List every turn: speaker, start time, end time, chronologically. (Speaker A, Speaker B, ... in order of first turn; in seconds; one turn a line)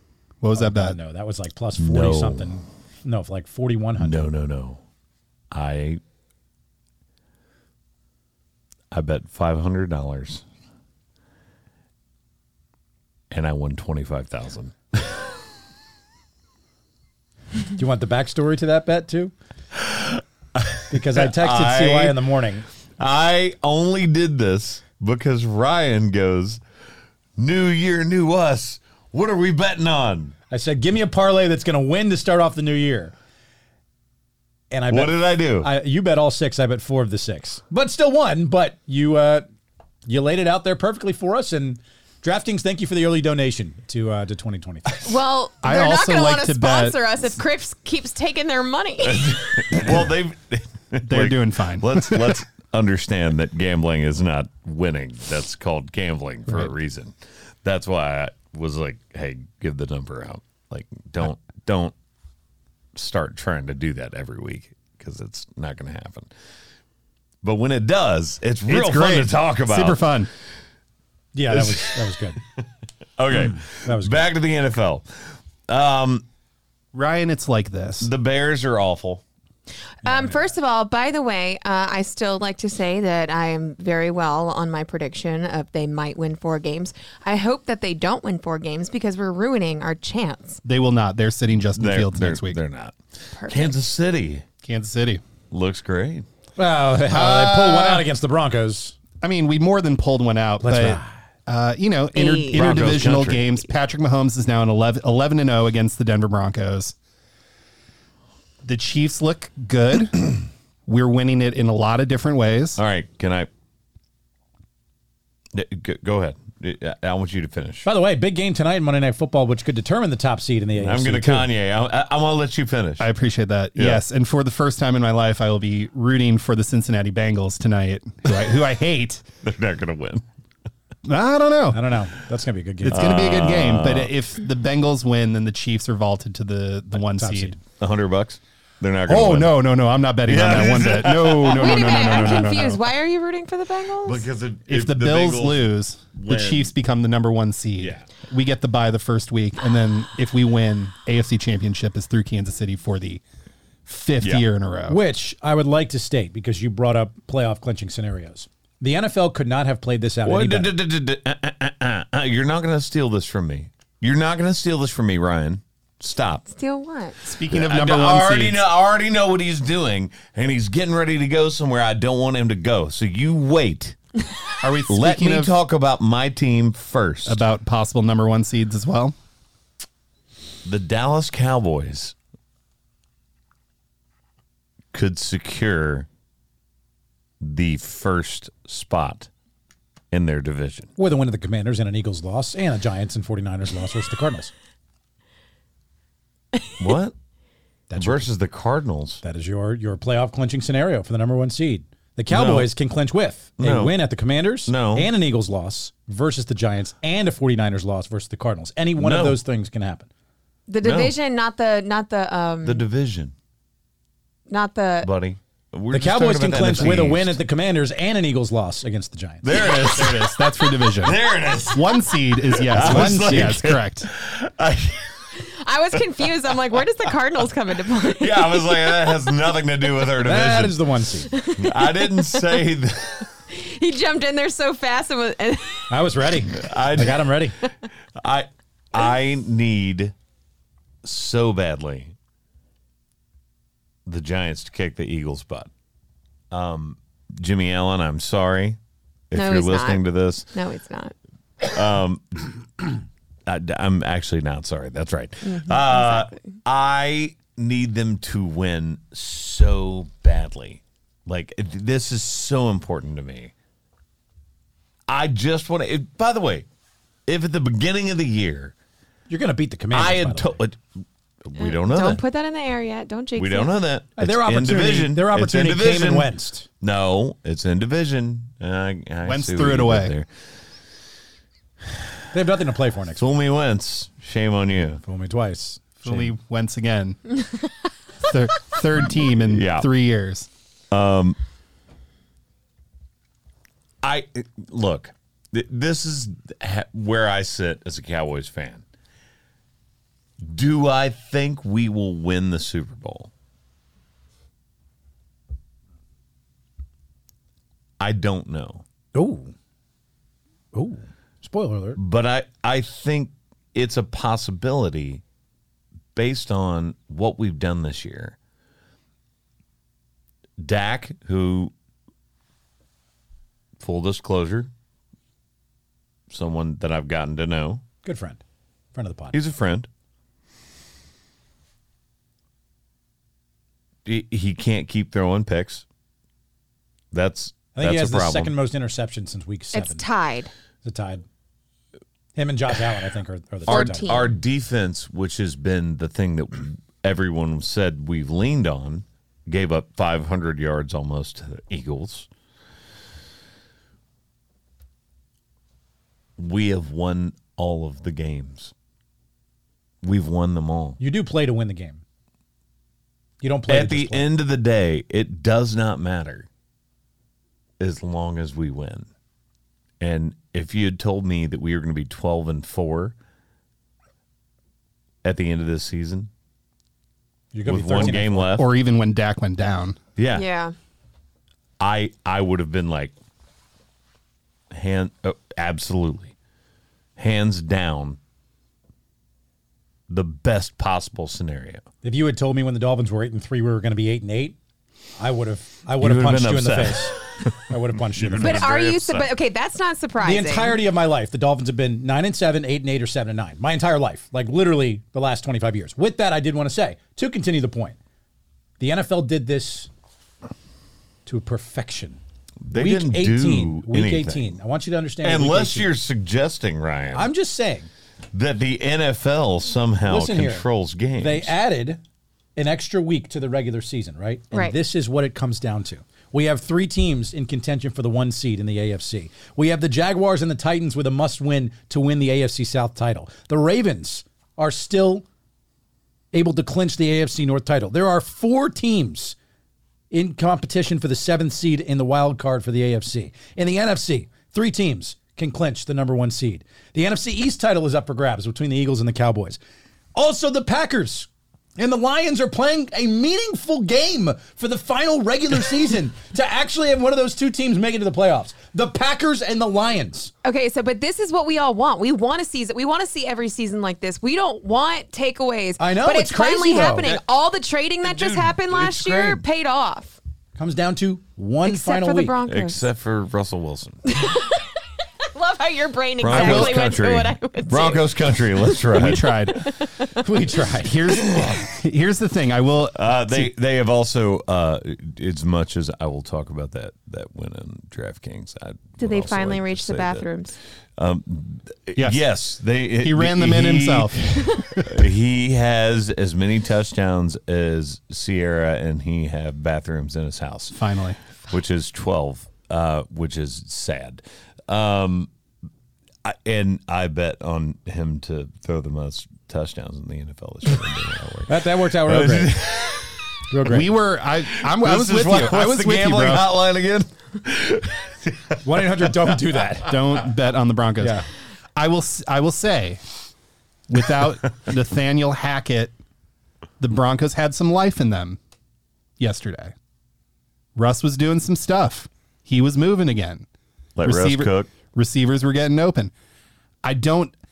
Speaker A: 0.4-1.0
Speaker B: 0.5-4.3
Speaker C: 1.8-2.5
Speaker C: 4.0-4.8
Speaker C: 5.5-6.0
Speaker C: 8.9-10.4
Speaker C: 13.3-15.3
Speaker B: 17.8-19.3
Speaker C: 19.8-22.2
Speaker B: 20.9-22.7
Speaker C: 23.0-26.6
Speaker C: 27.4-30.4
Speaker B: 30.5-33.1
Speaker B: 34.7-39.5
Speaker C: 34.9-35.7
Speaker B: 40.1-45.1
Speaker D: 45.0-49.9
Speaker A: 45.6-47.0
Speaker C: 49.0-61.9
Speaker A: 51.0-52.4
Speaker C: 63.0-66.3
Speaker C: 67.4-70.1
Speaker A: 68.7-70.3
Speaker B: 71.3-72.4
Speaker C: 71.5-72.7
Speaker C: 73.2-75.1
Speaker B: 73.3-74.2
Speaker C: 75.7-76.2
Speaker A: 76.9-78.1
Speaker C: 78.0-79.2
Speaker D: 80.0-90.6
Speaker B: 80.0-80.4
Speaker A: 90.7-92.6
Speaker C: 91.8-94.5
Speaker D: 93.4-93.8
Speaker A: 94.6-95.2
Speaker C: 95.5-96.3
Speaker B: 96.6-99.0
Speaker A: 97.1-98.1
Speaker A: 99.2-107.0
Speaker B: 100.6-101.1
Speaker D: 102.1-102.7
Speaker C: 102.5-103.4
Speaker A: 108.6-112.8
Speaker C: 112.8-113.5
Speaker C: 115.5-117.9
Speaker B: 117.8-121.5
Speaker C: 120.8-123.1
Speaker A: 123.0-129.2
Speaker C: 123.8-124.0
Speaker C: 129.4-130.2
Speaker A: 131.1-131.8
Speaker B: 131.7-133.1
Speaker A: 132.8-137.6
Speaker C: 132.9-134.1
Speaker B: 137.1-137.6
Speaker C: 137.8-139.6
Speaker A: 139.1-142.8
Speaker C: 140.3-142.6
Speaker D: 141.5-144.3
Speaker C: 144.1-146.7
Speaker A: 144.7-153.2
Speaker C: 147.8-148.1
Speaker A: 153.9-155.0
Speaker B: 154.9-160.7
Speaker C: 160.2-166.4
Speaker D: 166.5-167.4
Speaker A: 167.3-168.6
Speaker C: 167.5-174.0
Speaker A: 174.6-175.6
Speaker C: 174.9-177.4
Speaker A: 177.3-179.2
Speaker C: 180.7-182.2
Speaker C: 184.9-186.1
Speaker C: 187.4-189.3
Speaker C: 190.1-190.9
Speaker B: 191.0-194.5
Speaker C: 196.8-197.1
Speaker B: 197.9-198.3
Speaker C: 198.0-199.2
Speaker B: 199.2-210.1
Speaker C: 202.3-202.7
Speaker C: 203.6-204.0
Speaker C: 204.7-205.1
Speaker C: 209.0-209.4
Speaker D: 210.7-212.8
Speaker C: 210.8-211.2
Speaker C: 212.6-213.3
Speaker D: 214.5-215.1
Speaker C: 215.0-217.4
Speaker B: 215.9-219.5
Speaker C: 219.4-225.3
Speaker A: 219.8-224.1
Speaker B: 222.8-223.6
Speaker D: 225.4-229.2
Speaker C: 225.9-226.8
Speaker C: 228.0-230.8
Speaker B: 230.2-231.3
Speaker D: 231.3-232.6
Speaker C: 231.6-233.3
Speaker D: 233.5-235.9
Speaker B: 235.9-237.6
Speaker C: 236.5-237.3
Speaker C: 238.2-240.1
Speaker C: 241.0-242.1
Speaker C: 244.1-245.7
Speaker C: 246.5-248.8
Speaker C: 249.3-250.5
Speaker D: 249.3-251.2
Speaker C: 251.6-252.6
Speaker C: 253.5-263.5
Speaker D: 255.5-256.4
Speaker C: 265.1-266.7
Speaker C: 267.3-268.7
Speaker B: 269.3-270.6
Speaker C: 269.9-270.8
Speaker C: 271.4-272.2
Speaker D: 271.6-273.8
Speaker C: 273.4-280.3
Speaker B: 274.2-276.7
Speaker A: 279.2-280.1
Speaker B: 282.3-283.3
Speaker C: 283.2-285.0
Speaker B: 285.0-286.3
Speaker A: 286.0-287.2
Speaker A: 288.2-290.5
Speaker C: 289.5-289.9
Speaker C: 290.9-291.4
Speaker C: 294.0-298.8
Speaker C: 300.4-303.3
Speaker C: 308.0-308.8
Speaker B: 309.1-309.5
Speaker B: 310.7-312.0
Speaker C: 312.0-315.2
Speaker C: 316.1-318.4
Speaker C: 320.6-321.7
Speaker C: 323.8-324.7
Speaker C: 326.3-327.8
Speaker B: 328.0-328.4
Speaker B: 328.9-329.4
Speaker C: 329.3-329.9
Speaker C: 334.1-335.8
Speaker C: 337.1-338.6
Speaker B: 337.8-340.1
Speaker D: 339.7-340.5
Speaker B: 340.8-341.2
Speaker B: 342.4-344.3
Speaker D: 343.7-344.3
Speaker C: 343.7-352.3
Speaker C: 356.4-358.7
Speaker C: 360.0-361.0
Speaker B: 361.0-362.0
Speaker B: 363.4-364.3
Speaker C: 363.7-366.5
Speaker C: 367.8-369.1
Speaker C: 370.0-373.1
Speaker C: 375.2-376.3
Speaker B: 377.5-378.5
Speaker C: 377.7-378.7
Speaker A: 378.0-380.0
Speaker C: 380.2-380.5
Speaker D: 380.3-380.8
Speaker C: 381.8-383.1
Speaker C: 384.7-386.3
Speaker C: 387.2-388.2
Speaker C: 390.1-391.8
Speaker B: 392.0-394.6
Speaker B: 395.2-398.7
Speaker C: 396.0-397.6
Speaker C: 398.1-399.3
Speaker D: 398.4-400.8
Speaker B: 400.2-408.0
Speaker B: 408.8-409.9
Speaker B: 411.3-412.2
Speaker C: 412.6-414.6
Speaker B: 412.7-415.9
Speaker C: 415.2-417.3
Speaker B: 417.1-417.9
Speaker C: 418.3-421.5
Speaker B: 420.1-420.7
Speaker B: 421.2-422.0
Speaker B: 422.6-435.2
Speaker D: 424.5-424.8
Speaker B: 436.3-439.4
Speaker B: 440.1-449.6
Speaker B: 450.1-460.3
Speaker D: 460.4-470.2
Speaker B: 465.8-467.1
Speaker C: 466.9-467.2
Speaker C: 468.0-469.4
Speaker B: 470.6-472.4
Speaker D: 471.6-472.9
Speaker C: 472.4-474.0
Speaker D: 474.1-474.7
Speaker D: 475.3-480.1
Speaker C: 476.2-479.4
Speaker A: 476.3-476.7
Speaker A: 478.9-479.7
Speaker B: 480.2-481.0
Speaker A: 480.8-483.5
Speaker C: 481.3-481.6
Speaker C: 482.9-490.3
Speaker D: 489.0-490.6
Speaker C: 491.0-500.8
Speaker A: 492.0-492.2
Speaker A: 493.0-495.1
Speaker A: 500.7-501.2
Speaker C: 501.5-505.3
Speaker C: 506.2-513.4
Speaker B: 511.5-512.6
Speaker B: 513.5-513.9
Speaker A: 513.6-516.5
Speaker C: 514.5-519.6
Speaker B: 518.6-520.0
Speaker A: 519.8-521.2
Speaker B: 521.0-521.2
Speaker A: 521.8-523.0
Speaker A: 523.9-525.9
Speaker A: 526.8-528.4
Speaker A: 529.2-529.7
Speaker A: 530.8-533.5
Speaker C: 534.0-534.7
Speaker A: 534.0-536.1
Speaker A: 536.8-537.4